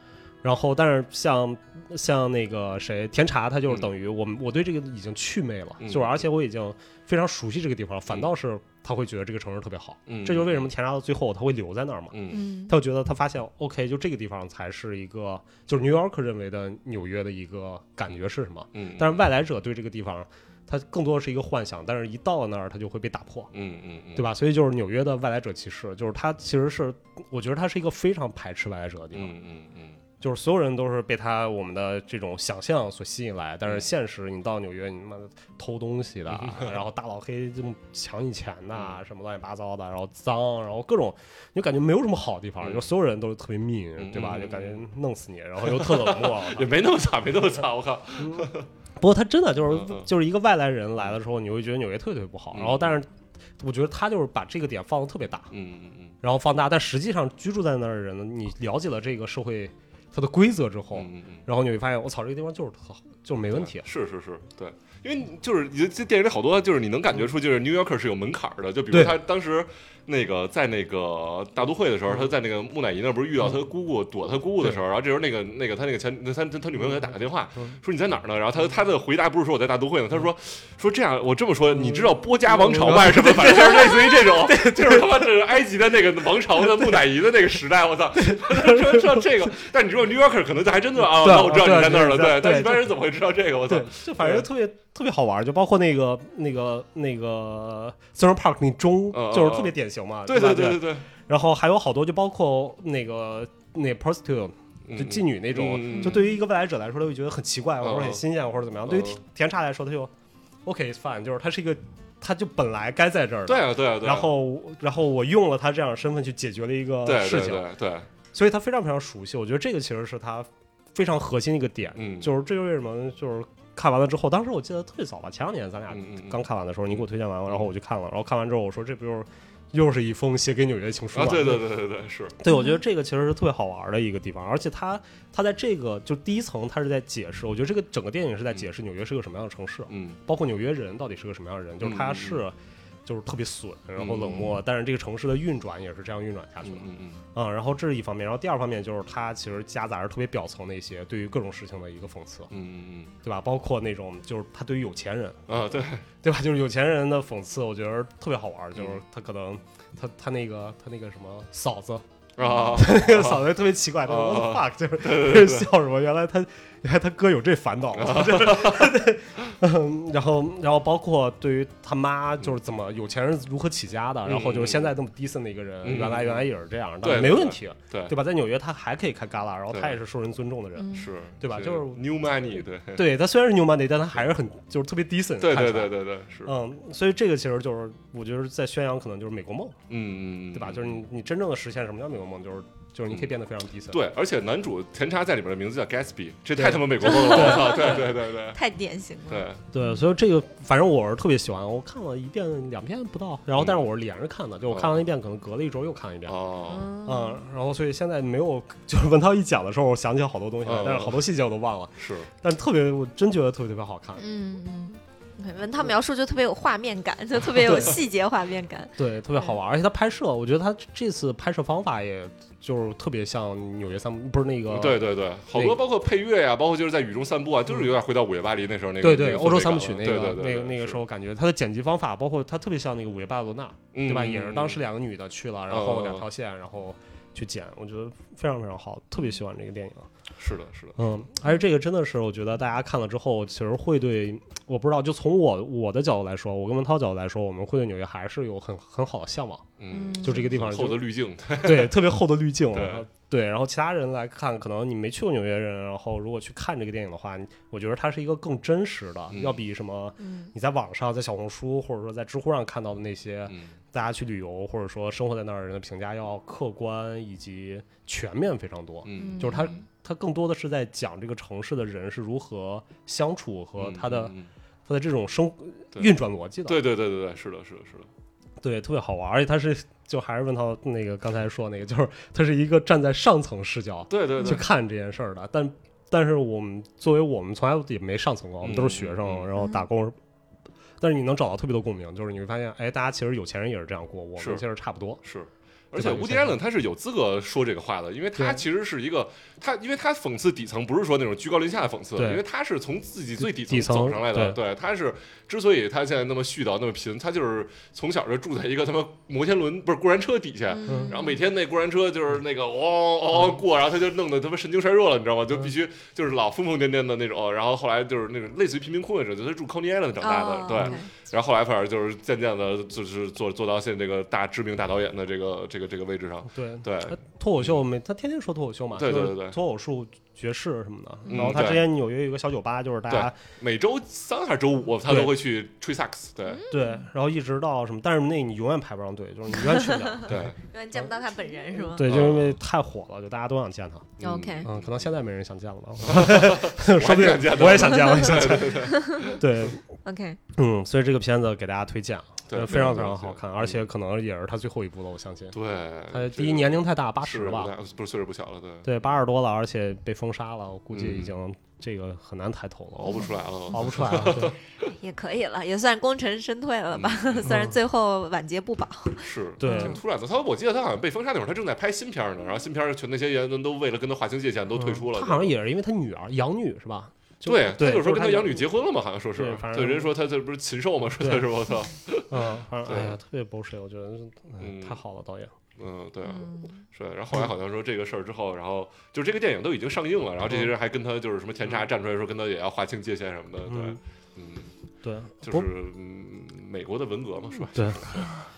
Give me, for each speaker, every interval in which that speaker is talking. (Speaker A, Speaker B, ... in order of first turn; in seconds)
Speaker A: 0.4-23.5, 24.1-29.4, 30.2-46.7, 48.2-55.5, 56.2-63.9, 68.9-69.2, 81.8-85.2, 88.2-89.2, 91.0-92.9, 93.7-110.1, 110.6-117.7, 118.3-131.7, 132.4-152.5, 153.2-155.4, 156.2-162.0, 162.7-182.0, 182.9-185.9, 186.4-189.8, 190.5-194.0, 196.6-198.0, 199.7-206.3, 207.0-214.2, 217.6-218.0, 219.0-225.8, 229.0-240.1, 241.0-249.7, 250.2-251.1, 251.6-274.3, 274.9-276.8, 278.6-290.2, 291.0-295.2, 295.9-296.6, 298.4-298.6, 302.2-302.4, 303.4-304.6, 310.9-311.1, 320.7-321.0, 326.5-333.4, 335.1-335.4, 336.7-341.0, 341.8-349.8, 350.6-355.5, 356.1-357.7, 358.8-364.5, 367.4-367.8, 369.6-369.9, 374.7-378.7, 379.3-380.1, 381.2-381.5, 382.3-385.5, 393.7-394.0, 395.0-395.7, 397.7-398.3
Speaker B: 5.8-6.2, 10.1-10.7, 12.1-12.4, 18.7-19.2, 23.5-24.3, 29.1-30.0, 36.3-36.8, 38.7-39.0, 42.6-42.9, 44.0-44.8, 45.6-48.7, 49.7-50.1, 52.5-52.9, 55.5-56.1, 60.9-61.5, 63.5-94.5, 99.1-101.1, 104.8-106.3, 107.8-108.2, 108.8-109.2, 113.5-114.3, 117.0-118.1, 122.0-122.4, 125.9-127.7, 131.1-132.3, 139.9-140.2, 141.8-142.4, 144.0-144.6, 146.6-147.2, 152.5-153.1, 155.5-156.0, 158.7-159.0, 162.3-163.5, 164.0-165.7, 167.9-168.9, 174.2-174.9, 175.8-176.5, 177.0-178.2, 179.7-180.0, 180.9-183.1, 185.4-186.5, 189.9-191.0, 193.9-198.6, 199.3-199.6, 204.7-205.0, 206.2-206.9, 210.6-211.2, 212.0-212.3, 224.7-231.0, 233.9-234.8, 235.7-236.3, 240.4-241.0, 249.8-252.1, 252.7-253.1, 259.3-259.6, 263.5-263.8, 269.0-269.9, 273.8-274.5, 276.6-278.1, 284.1-284.6, 288.6-289.5, 294.4-294.6, 295.2-327.8, 328.9-329.6, 331.3-331.9, 333.1-336.6, 340.3-340.6, 342.0-342.6, 344.2-345.1, 346.0-349.4, 352.5-353.8, 355.5-359.1, 360.9-361.4, 363.0-364.9, 366.9-367.6, 369.2-375.5, 377.4-383.2, 384.6-385.0, 385.8-394.7, 395.4-398.3
Speaker C: 12.3-12.7, 105.8-106.4, 132.5-132.8, 162.4-162.8, 180.8-181.1, 197.0-200.0, 206.7-207.4, 214.2-219.6, 249.9-250.5, 260.2-260.5, 269.1-269.7, 284.4-284.6, 289.6-289.9, 310.7-311.4, 320.2-321.1, 331.2-331.6, 336.4-337.1, 339.6-342.1, 344.2-344.7, 347.7-349.4, 350.0-350.4, 364.9-370.0, 386.2-386.8